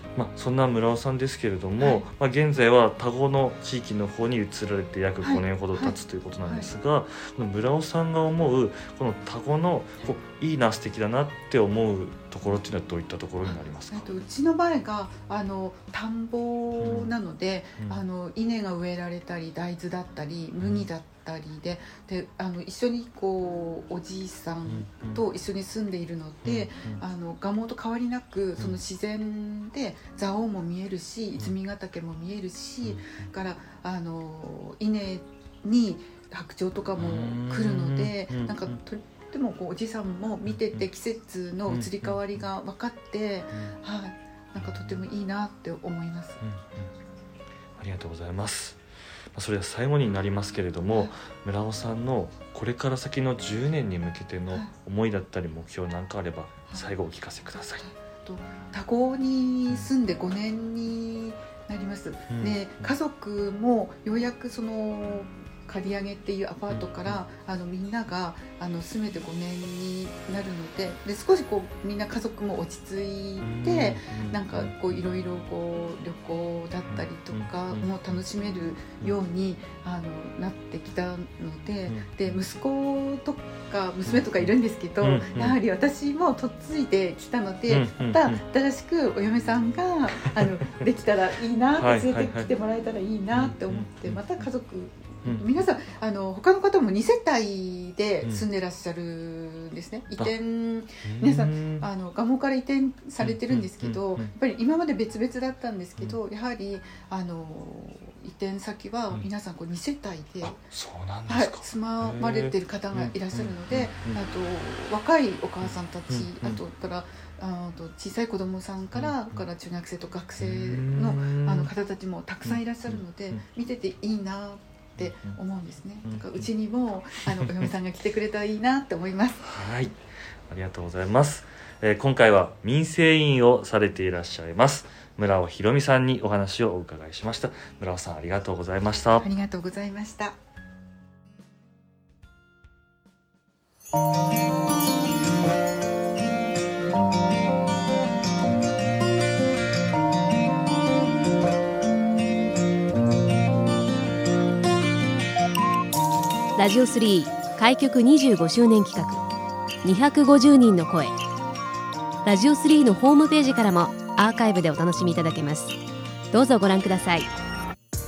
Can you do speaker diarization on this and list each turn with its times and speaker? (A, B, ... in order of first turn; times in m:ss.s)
0:00.1-0:14.1 A
0:01.8-0:02.1 B
0:05.2-0:06.7 B
0:13.4-0:46.4 B
0:16.8-0:17.1 A
0:20.6-0:20.9 A
0:24.6-0:25.2 A
0:26.4-0:27.0 A
0:32.8-0:33.3 A
0:37.0-0:38.8 A
0:40.5-0:40.9 A
0:41.6-0:42.4 A
0:44.6-0:45.0 A
0:46.4-0:46.9 A
0:47.8-0:48.8 A
0:49.3-0:57.8 A
0:50.9-0:51.2 B
0:57.8-1:50.6 B
1:02.3-1:02.9 A
1:06.7-1:07.2 A
1:13.4-1:15.0 A
1:16.9-1:18.2 A
1:21.9-1:22.4 A
1:24.0-1:25.6 A
1:27.7-1:28.4 A
1:30.2-1:30.7 A
1:31.8-1:32.5 A
1:33.3-1:34.4 A
1:35.2-1:35.5 A
1:41.0-1:41.9 A
1:43.2-1:44.3 A
1:50.4-1:54.2 A
1:51.3-2:09.5 B
1:55.6-1:56.6 A
1:58.9-1:59.4 A
2:00.4-2:01.7 A
2:02.4-2:03.4 A
2:05.0-2:05.4 A
2:06.0-2:06.5 A
2:07.3-2:07.7 A
2:09.4-2:10.0 A
2:10.5-2:19.2 A
2:19.2-2:20.4 B
2:36.6-2:39.2 C
2:39.8-2:41.2 C
2:42.2-2:45.8 C
2:46.3-2:47.3 C